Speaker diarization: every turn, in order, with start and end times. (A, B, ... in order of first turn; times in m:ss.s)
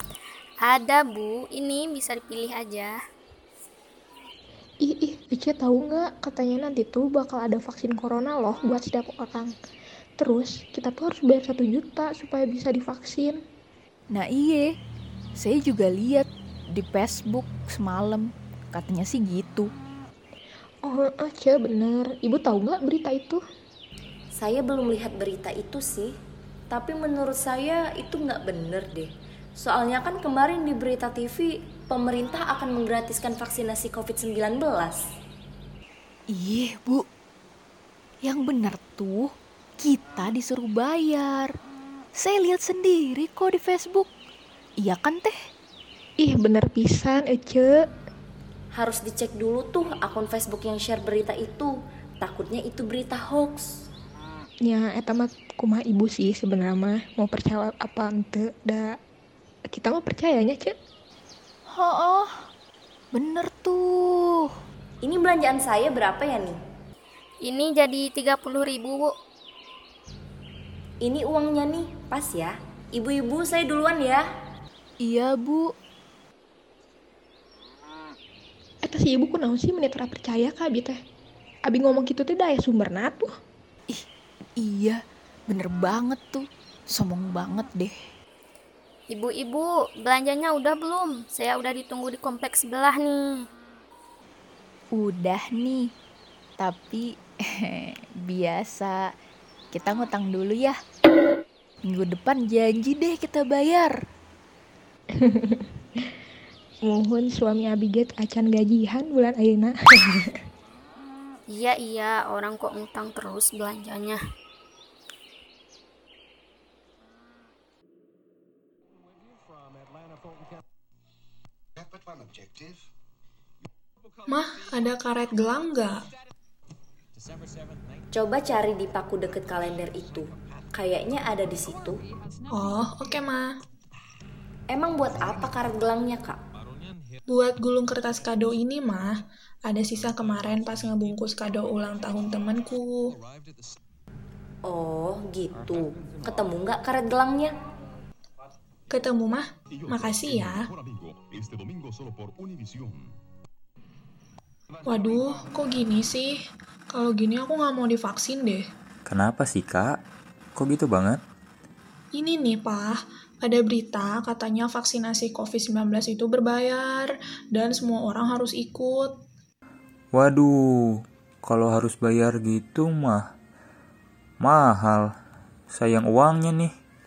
0:00.6-0:03.0 A
0:04.8-0:09.5 B
0:10.2-0:13.4 B
0:14.1-0:14.6 C
0:15.4-0:19.7 C
0:20.8-0:23.4 B
0:24.4-0:26.1 D
0:26.7-0:29.1 D
0:29.6-0:35.0 D
0:36.3-0:37.0 C
0:38.2-0:39.3 C
0:39.8-0:41.5 C
0:42.2-0:44.0 C
0:44.8-0:45.3 C
0:46.2-0:47.7 B
0:48.8-0:53.7 D
0:54.7-0:58.9 B
0:59.7-1:00.7 B
1:01.7-1:02.3 C
1:03.2-1:03.8 C
1:05.0-1:06.6 D
1:07.4-1:09.1 A
1:11.0-1:14.2 D
1:15.0-1:15.6 C
1:18.8-1:21.0 B
1:21.7-1:23.3 B
1:24.6-1:25.0 C
1:25.5-1:27.9 C
1:29.1-1:33.4 A
1:35.0-1:35.9 C
1:36.6-1:37.0 C
1:37.6-1:39.0 C
1:39.7-1:40.8 C
1:41.9-1:43.9 C
1:45.2-1:45.6 B
1:46.8-1:50.4 B
1:51.5-1:54.2 A
2:04.3-2:06.0 E
2:08.1-2:12.0 D
2:12.5-2:13.5 E
2:14.7-2:16.4 D
2:17.3-2:23.1 E
2:24.6-2:27.5 D
2:28.9-2:30.7 E
2:34.8-2:36.3 E
2:36.9-2:38.6 E
2:39.1-2:39.7 C
2:39.5-2:39.8 F
2:40.7-2:41.2 F
2:42.1-2:49.1 E
2:50.2-2:50.5 F
2:51.6-2:53.2 F
2:54.5-2:55.0 F
2:56.1-2:56.6 F